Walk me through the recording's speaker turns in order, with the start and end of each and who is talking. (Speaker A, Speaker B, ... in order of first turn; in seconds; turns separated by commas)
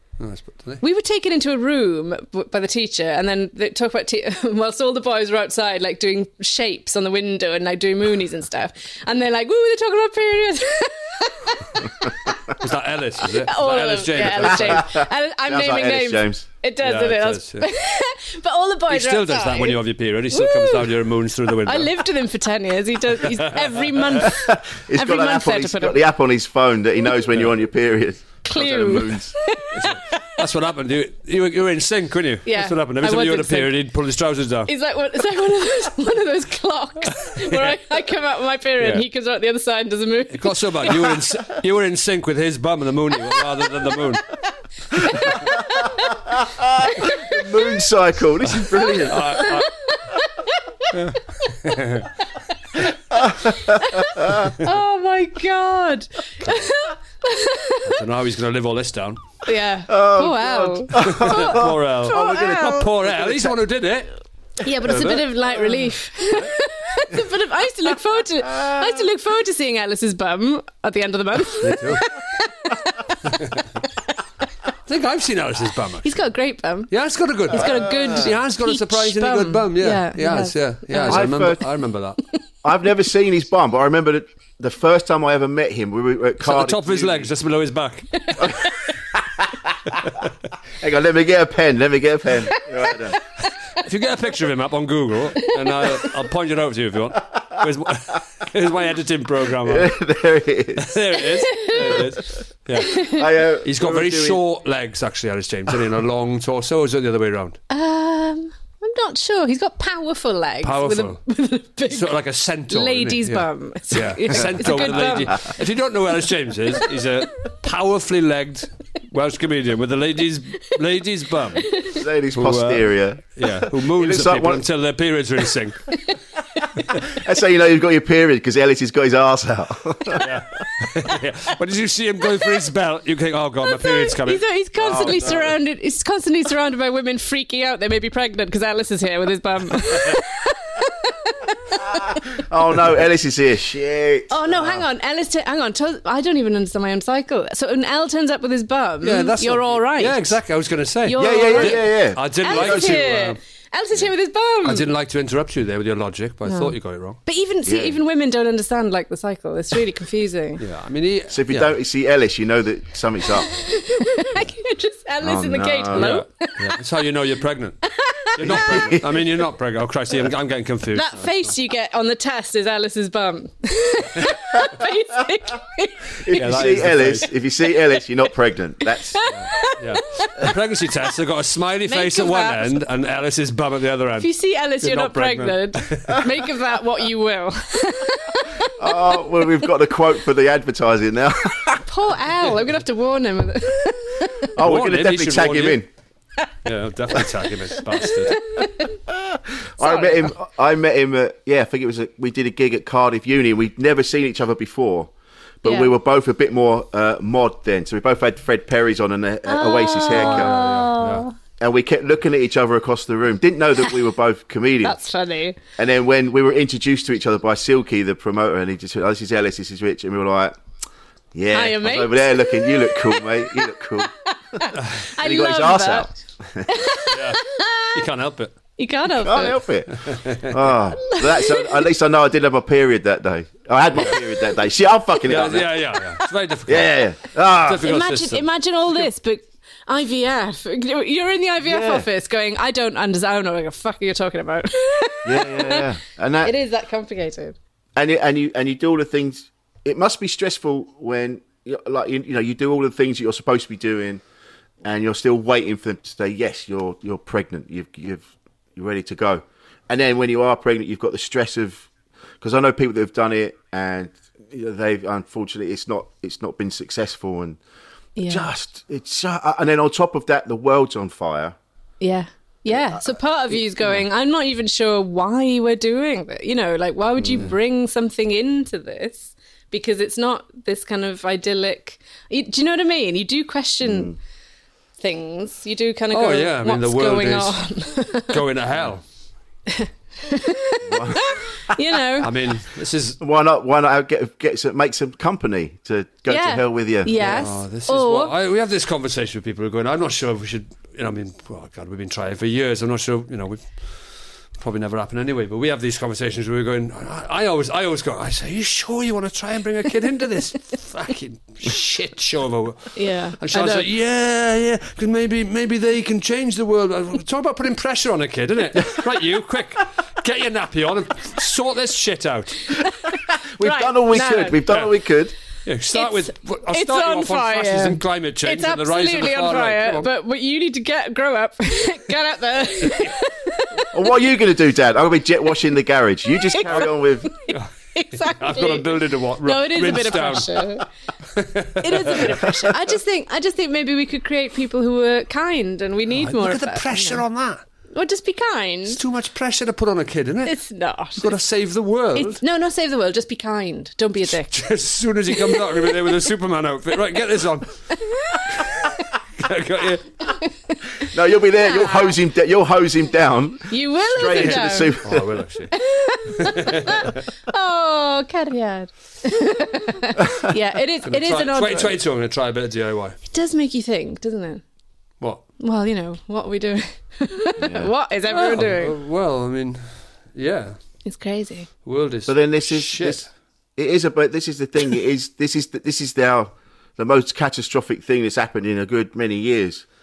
Speaker A: 0.2-0.8, Speaker B: 0.8-12.3, Speaker A: 12.6-14.9, Speaker B: 13.4-20.9, Speaker C: 14.3-16.4, Speaker A: 16.8-17.7, Speaker A: 18.9-21.9, Speaker B: 21.6-26.0, Speaker A: 23.4-24.2, Speaker C: 24.2-29.3, Speaker B: 28.4-30.2, Speaker A: 29.8-34.7, Speaker B: 32.5-33.8, Speaker B: 34.7-41.0, Speaker A: 37.3-37.8, Speaker A: 40.3-44.2, Speaker C: 45.0-45.6, Speaker B: 45.2-46.1, Speaker C: 46.3-49.5, Speaker B: 47.0-47.4, Speaker A: 49.1-49.7, Speaker B: 49.2-50.7, Speaker A: 50.9-52.1, Speaker C: 53.1-54.5, Speaker B: 53.5-57.9, Speaker A: 57.9-59.2, Speaker B: 59.5-62.9, Speaker C: 59.9-63.6, Speaker A: 61.0-64.1, Speaker B: 64.6-73.1, Speaker A: 64.9-65.2, Speaker C: 68.5-69.0, Speaker A: 71.6-72.1, Speaker A: 73.3-73.6, Speaker A: 74.9-76.2, Speaker B: 76.0-76.9, Speaker A: 76.9-82.2, Speaker B: 77.5-81.3, Speaker C: 77.6-78.1, Speaker C: 81.1-81.7, Speaker C: 82.6-87.3, Speaker A: 86.4-88.5, Speaker C: 88.4-89.7, Speaker C: 90.8-93.2, Speaker A: 93.8-99.9, Speaker C: 99.6-100.9, Speaker A: 100.8-103.1, Speaker B: 101.5-102.0, Speaker B: 102.8-103.2, Speaker C: 103.0-104.4, Speaker A: 103.6-107.6, Speaker B: 107.7-112.1, Speaker A: 110.6-111.2, Speaker A: 111.9-121.8, Speaker B: 112.7-115.5, Speaker B: 121.7-122.0, Speaker C: 122.0-124.6, Speaker A: 122.3-125.8, Speaker C: 127.1-130.2, Speaker A: 130.2-134.4, Speaker B: 133.6-142.2, Speaker C: 134.8-135.6, Speaker C: 142.4-144.8, Speaker B: 144.3-150.3, Speaker A: 149.0-153.4, Speaker B: 151.1-154.9, Speaker C: 151.2-153.1, Speaker A: 154.7-157.2, Speaker B: 156.5-160.6, Speaker C: 157.7-158.0, Speaker A: 160.6-161.8, Speaker C: 161.3-163.5, Speaker B: 163.5-166.6, Speaker C: 165.2-166.1, Speaker A: 165.9-167.8, Speaker B: 167.8-169.0, Speaker A: 168.4-171.5, Speaker C: 168.4-169.2, Speaker B: 170.9-176.8, Speaker C: 176.2-179.2, Speaker A: 176.3-177.3, Speaker B: 179.1-180.5, Speaker A: 179.3-186.3, Speaker B: 181.9-182.8, Speaker B: 184.2-189.2, Speaker C: 188.8-191.8, Speaker B: 191.8-194.5, Speaker C: 194.6-195.9, Speaker A: 194.6-195.8, Speaker A: 196.7-198.4, Speaker B: 198.3-198.9, Speaker C: 199.1-205.1, Speaker B: 199.8-200.3, Speaker C: 205.6-210.6, Speaker B: 205.6-205.9, Speaker B: 209.5-211.4, Speaker A: 210.1-211.3, Speaker C: 211.6-215.0, Speaker B: 214.8-215.6, Speaker C: 215.8-220.6, Speaker C: 221.3-224.7, Speaker B: 221.5-223.3, Speaker B: 224.2-226.1, Speaker C: 225.2-226.8, Speaker B: 226.7-228.0, Speaker A: 227.1-228.5, Speaker B: 228.8-229.6, Speaker C: 229.2-235.7, Speaker A: 230.1-230.7, Speaker B: 231.0-231.9, Speaker A: 235.3-238.5, Speaker C: 236.7-237.8, Speaker B: 237.8-245.8, Speaker C: 241.6-242.1, Speaker C: 245.2-246.5, Speaker B: 246.4-247.6, Speaker C: 248.0-254.2, Speaker C: 254.8-261.9, Speaker C: 262.4-267.6, Speaker B: 268.2-268.5, Speaker C: 268.3-271.6, Speaker B: 272.0-284.1, Speaker C: 272.7-274.0, Speaker C: 277.2-277.5, Speaker C: 283.8-284.2, Speaker B: 285.0-288.4, Speaker A: 286.1-287.6, Speaker A: 288.3-289.0, Speaker B: 289.7-292.3, Speaker C: 290.9-291.8, Speaker A: 292.2-293.2, Speaker C: 293.2-297.4, Speaker B: 296.3-298.3, Speaker A: 297.2-303.9, Speaker A: 304.6-322.7, Speaker B: 312.9-313.9, Speaker C: 323.6-325.3, Speaker B: 323.6-324.6, Speaker A: 324.7-324.9, Speaker A: 325.6-330.1, Speaker B: 325.9-333.9, Speaker C: 333.9-337.3, Speaker B: 336.5-340.9, Speaker A: 337.5-340.7, Speaker A: 341.4-342.4, Speaker B: 341.8-347.2, Speaker A: 346.2-347.6, Speaker B: 347.9-349.0, Speaker A: 348.9-350.6, Speaker B: 350.4-351.3, Speaker A: 351.2-352.4, Speaker B: 352.1-354.5, Speaker A: 354.4-357.8, Speaker B: 355.3-356.1, Speaker B: 357.9-358.4, Speaker A: 359.4-360.1, Speaker B: 360.4-361.0, Speaker C: 361.0-365.3, Speaker B: 361.6-362.2, Speaker B: 363.7-365.0, Speaker A: 364.2-365.7, Speaker B: 365.7-372.0, Speaker A: 366.4-367.2, Speaker A: 371.1-373.2, Speaker B: 373.3-374.6, Speaker B: 375.6-379.0, Speaker C: 377.6-377.9, Speaker A: 378.3-380.8, Speaker B: 381.1-381.7, Speaker A: 381.9-383.3, Speaker C: 382.3-383.2, Speaker C: 383.8-389.8